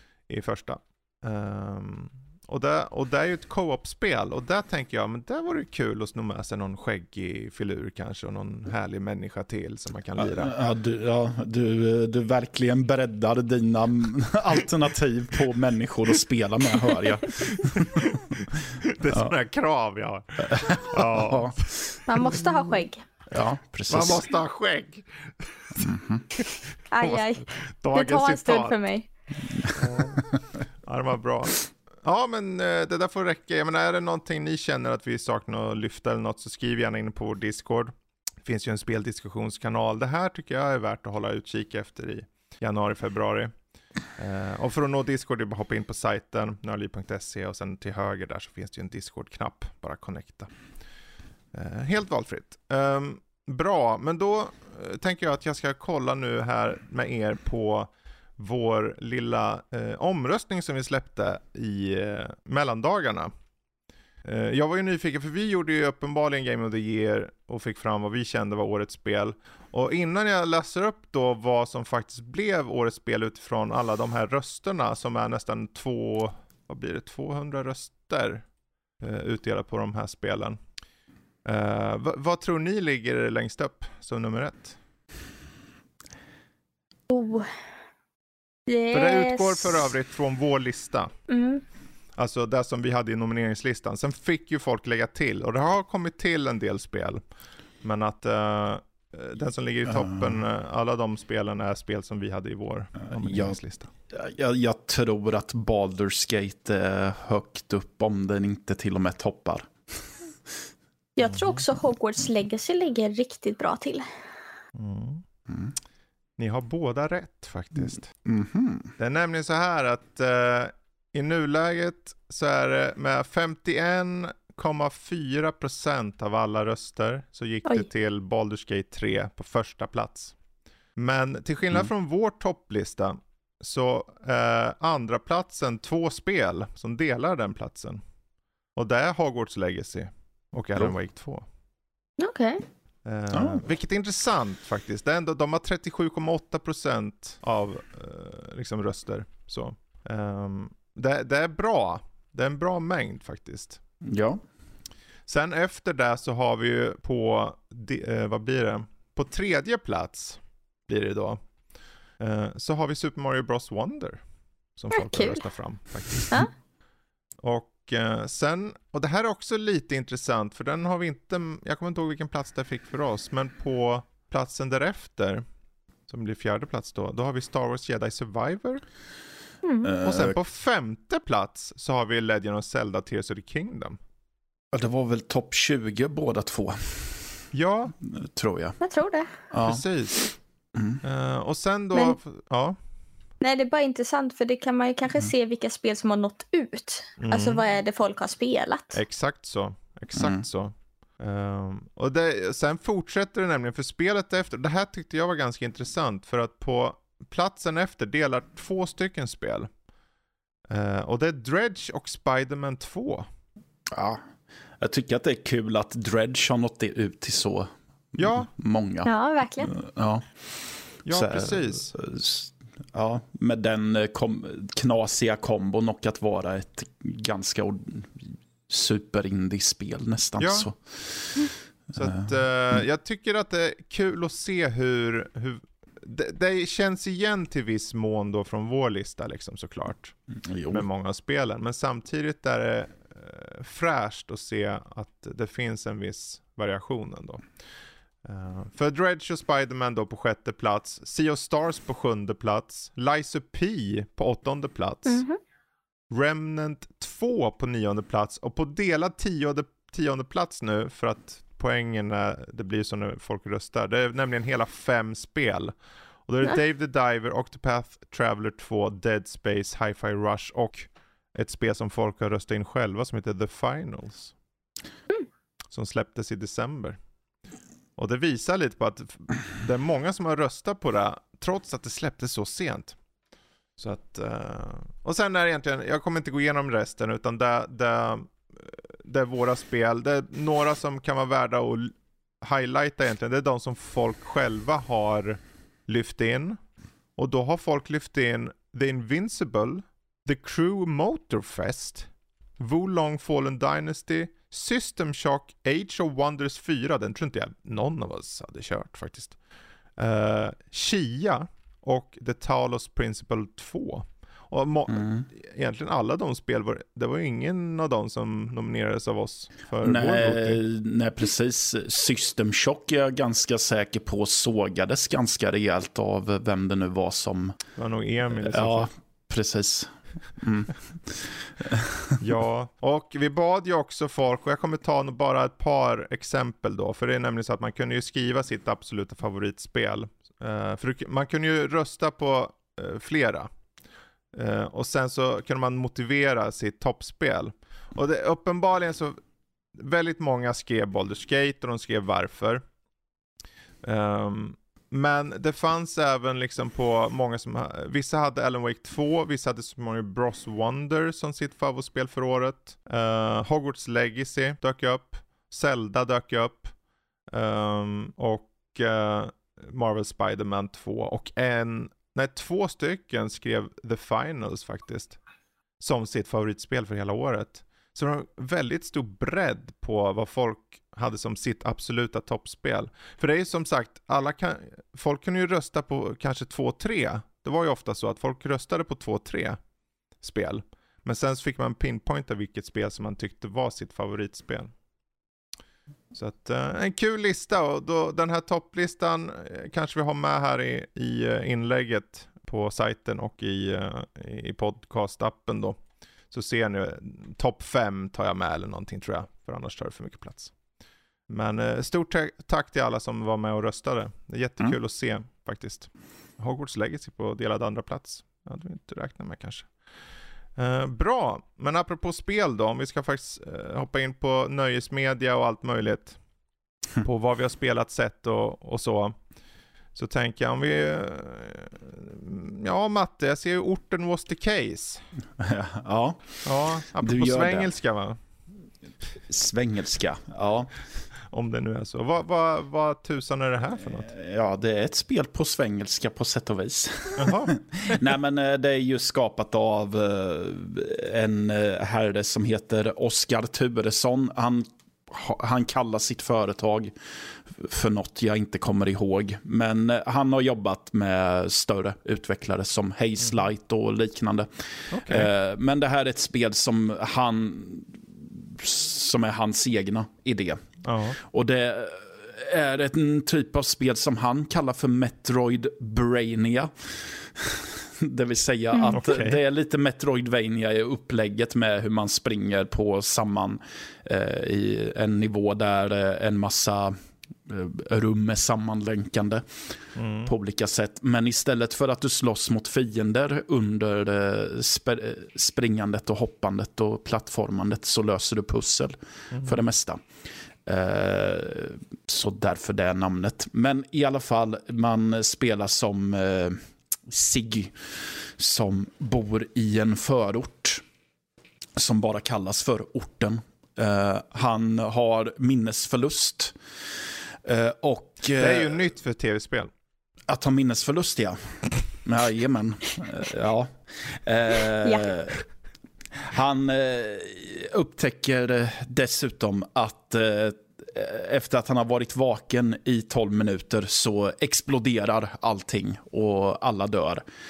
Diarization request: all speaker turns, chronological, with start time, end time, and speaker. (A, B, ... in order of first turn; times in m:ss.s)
0:00.3-0:10.5 A
0:10.2-0:18.6 B
0:17.5-0:21.6 A
0:19.1-0:19.3 B
0:20.4-0:22.0 B
0:22.1-0:23.0 C
0:23.3-0:24.2 B
0:23.9-0:28.8 A
0:25.8-0:26.2 B
0:26.9-0:29.1 C
0:29.5-0:30.4 B
0:29.7-0:37.9 A
0:38.4-0:43.5 A
0:44.2-0:50.5 A
0:51.5-1:03.3 A
1:04.2-1:18.5 A
1:19.0-1:20.6 A
1:21.4-1:24.8 A
1:27.1-1:27.5 C
1:28.7-1:29.9 C
1:28.9-1:31.1 A
1:31.3-1:31.6 C
1:32.2-1:37.2 A
1:37.8-1:43.9 A
1:39.9-1:40.4 B
1:43.1-1:43.6 B
1:44.1-1:50.1 B
1:51.2-1:54.1 C
1:51.3-1:51.6 A
1:54.8-1:55.2 A
1:55.5-1:55.7 B
1:56.4-1:58.1 A
1:58.2-1:58.9 B
1:59.0-2:10.4 A
2:11.0-2:18.0 A
2:18.8-2:21.4 A
2:22.2-2:22.6 C
2:23.0-2:33.8 A
2:23.3-2:23.6 B
2:34.1-2:34.4 B
2:35.3-2:41.4 A
2:42.2-2:44.2 A
2:44.8-2:46.4 A
2:44.9-2:45.4 C
2:47.4-2:55.4 A
2:56.1-2:58.8 A
2:59.6-2:59.9 C
2:59.8-3:00.4 B
3:00.0-3:04.0 A
3:04.7-3:07.4 B
3:07.5-3:08.0 A
3:08.0-3:08.8 B
3:08.8-3:09.3 C
3:09.5-3:09.8 B
3:09.6-3:10.3 A
3:10.8-3:11.0 B
3:11.0-3:12.8 A
3:13.4-3:19.0 C
3:17.2-3:17.6 A
3:18.9-3:29.7 A
3:20.1-3:20.4 B
3:30.7-3:33.3 A
3:33.9-3:34.2 B
3:34.8-3:40.3 B
3:38.2-3:38.5 A
3:39.0-3:39.7 C
3:40.9-3:51.4 B
3:41.0-3:41.9 A
3:50.4-3:50.7 A
3:51.9-3:52.8 B
3:52.0-4:00.2 A
4:00.4-4:00.8 B
4:00.7-4:07.5 A
4:08.2-4:15.2 A
4:15.1-4:15.4 C
4:16.1-4:25.7 A
4:26.3-4:34.4 A
4:35.7-4:37.0 A
4:38.0-4:43.0 A
4:43.8-4:56.6 A
4:57.2-5:09.4 A
5:10.0-5:20.6 A
5:14.9-5:15.3 B
5:19.8-5:27.6 B
5:27.8-5:28.9 A
5:28.3-5:32.2 B
5:32.2-5:43.5 A
5:44.3-5:49.2 A
5:49.8-5:52.6 A
5:53.8-6:06.7 A
6:07.3-6:15.2 A
6:15.8-6:29.6 A
6:30.2-6:34.7 A
6:36.1-6:45.8 A
6:46.3-6:50.5 A
6:51.3-6:59.8 A
7:00.6-7:06.2 A
7:07.0-7:09.2 A
7:10.0-7:15.0 A
7:15.4-7:17.7 B
7:16.4-7:18.2 A
7:19.3-7:20.7 B
7:21.3-7:24.1 A
7:23.9-7:50.6 B
7:27.2-7:28.0 A
7:44.9-7:45.3 A
7:50.8-7:51.2 A
7:51.2-8:09.4 B
7:58.7-7:59.0 C
7:58.9-7:59.4 A
8:10.0-8:10.3 A
8:10.3-8:20.1 B
8:19.3-8:19.6 A
8:20.6-8:30.8 B
8:31.8-8:36.6 B
8:37.4-8:38.9 B
8:38.3-8:39.7 A
8:40.3-8:45.4 B
8:44.8-8:45.2 C
8:46.2-8:57.2 B